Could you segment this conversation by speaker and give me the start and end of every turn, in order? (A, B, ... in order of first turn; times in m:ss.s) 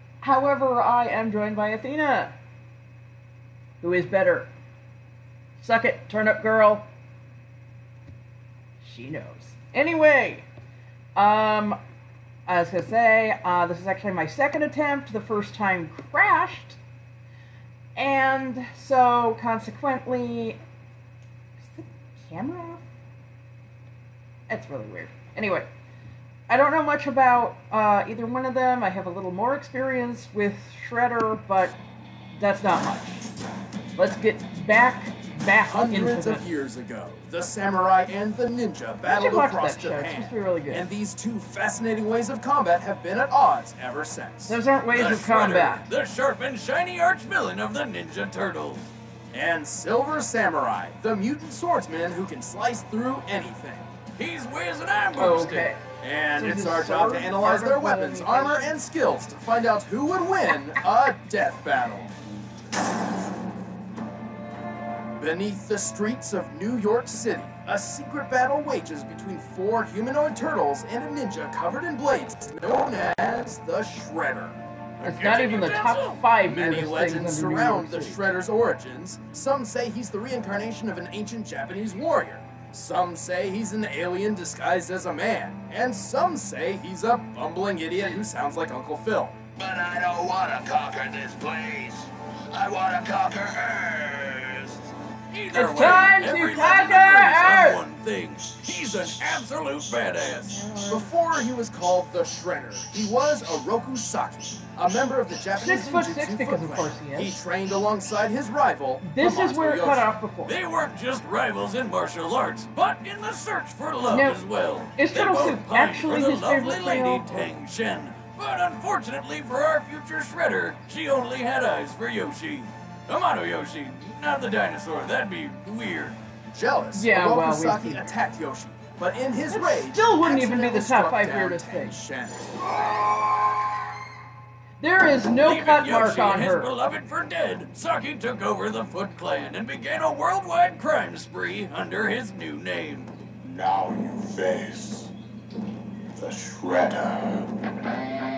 0:00.2-0:02.3 A
0:03.8-0:04.5 A
0:05.6-0:06.8 A
0:08.8-0:10.5 A
0:11.2-0:11.8 A
0:12.4-0:16.8 A
0:18.0-0:20.6 A
0:21.6-0:22.8 A
0:24.5-0:25.7 A
0:26.5-0:31.8 A
0:32.4-0:33.2 A
0:34.0-0:36.4 A
0:35.6-0:44.6 B
0:39.0-0:40.9 A
0:44.5-0:45.9 A
0:44.9-0:48.9 C
0:49.3-0:53.9 B
0:54.2-0:55.7 C
0:55.2-0:55.8 A
0:56.0-1:02.1 B
0:56.3-0:58.7 A
1:05.2-1:14.6 B
1:15.0-1:16.2 C
1:15.0-1:18.2 A
1:16.4-1:29.4 B
1:29.6-1:34.8 D
1:35.3-1:40.6 C
1:35.5-1:37.8 A
1:40.5-1:41.1 A
1:40.9-1:50.1 B
1:45.6-1:47.4 A
1:49.0-1:50.6 A
1:50.4-2:06.2 C
1:54.1-1:54.4 A
1:54.9-1:57.5 A
2:06.5-2:12.5 B
2:06.9-2:08.0 A
2:09.5-2:12.0 A
2:14.8-2:16.7 A
2:15.4-2:23.1 C
2:23.4-2:25.1 D
2:26.2-2:27.6 D